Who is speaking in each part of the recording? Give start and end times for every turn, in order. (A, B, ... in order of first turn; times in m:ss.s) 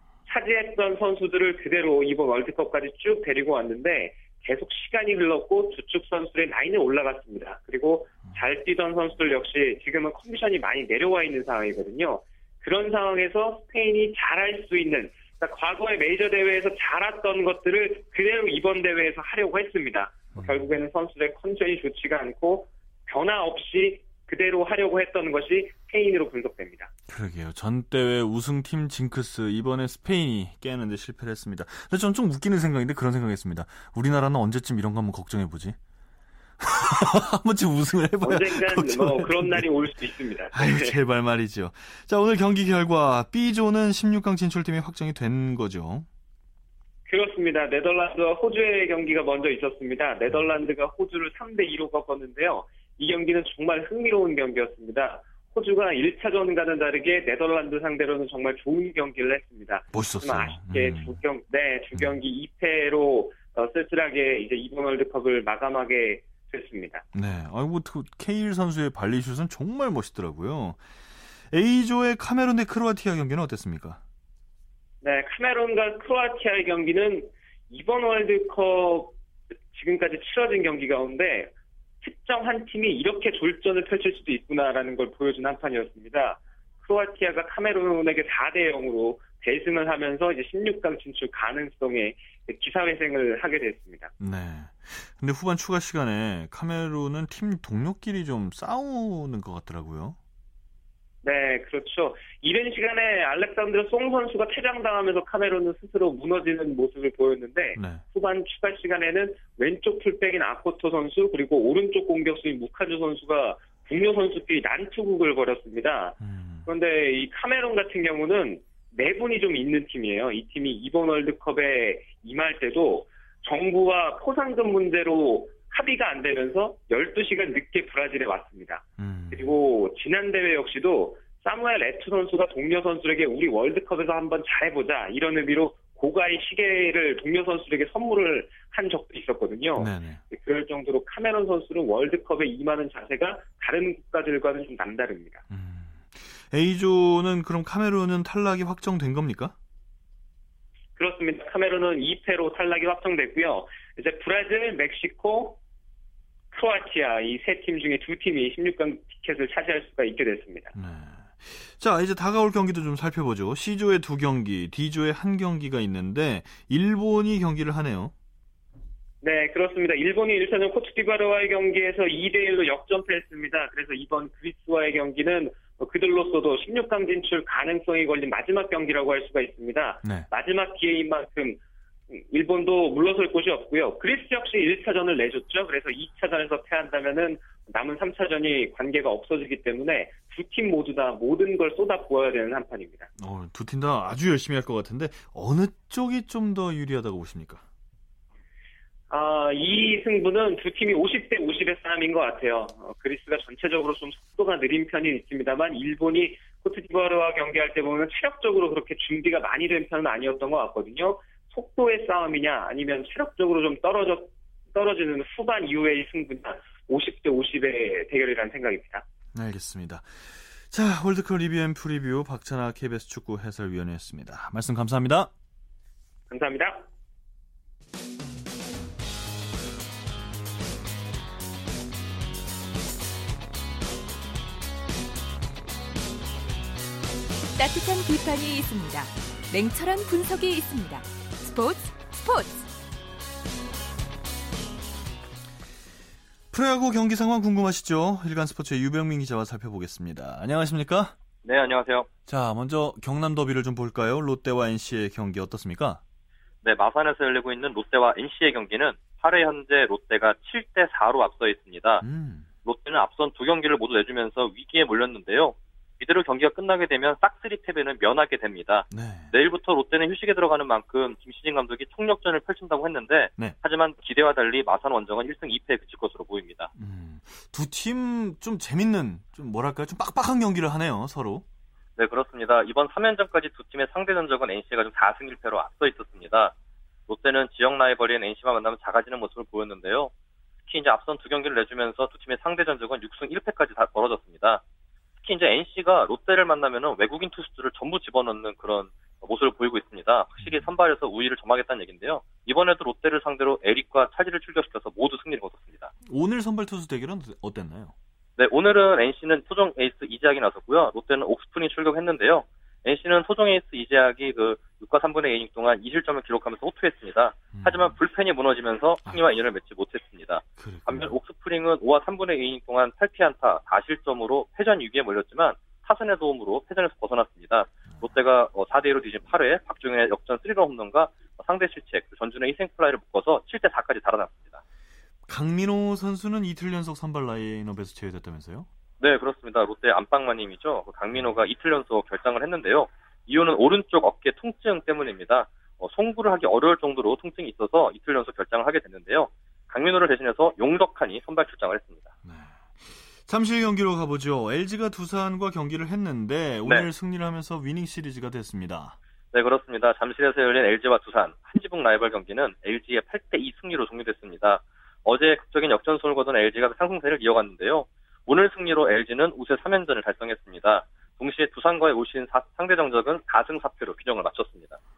0:00.3-0:26.9 A
0:20.3-0:20.8 B
0:27.1-0:35.8 B
0:36.6-0:39.7 B
0:38.2-0:41.0 A
0:40.5-0:46.1 B
0:47.1-1:07.0 A
0:59.9-1:01.2 B
1:07.1-1:10.8 B
1:11.5-1:14.0 B
1:15.0-1:19.2 A
1:19.7-1:34.1 A
1:34.2-1:40.2 B
1:41.2-2:25.4 A
1:47.8-1:48.0 B
1:56.2-1:56.7 B
2:09.0-2:09.6 B
2:19.8-2:20.2 B
2:25.5-2:29.6 B
2:31.0-2:35.6 A
2:36.5-2:40.7 A
2:40.7-2:48.1 B
2:49.2-3:13.1 A
3:00.0-3:00.3 B
3:13.2-3:17.6 B
3:19.1-3:39.0 A
3:39.3-3:45.3 B
3:46.3-3:46.9 A
3:57.6-4:02.7 C
4:06.5-4:11.2 B
4:11.4-4:12.1 D
4:12.3-4:16.0 B
4:16.6-4:22.0 D
4:22.0-4:22.5 B
4:22.6-4:36.7 D
4:28.9-4:29.3 B
4:36.8-4:41.4 B
4:42.0-4:46.5 D
4:47.1-4:50.1 D
4:50.6-4:54.6 D
4:55.2-5:05.9 D
5:00.4-5:00.7 B
5:06.1-5:08.0 B
5:08.4-5:34.6 D
5:17.5-5:18.0 B
5:20.6-5:21.2 B
5:35.3-5:38.7 B
5:39.0-5:52.1 D
5:52.2-5:59.0 B
5:59.3-6:14.8 D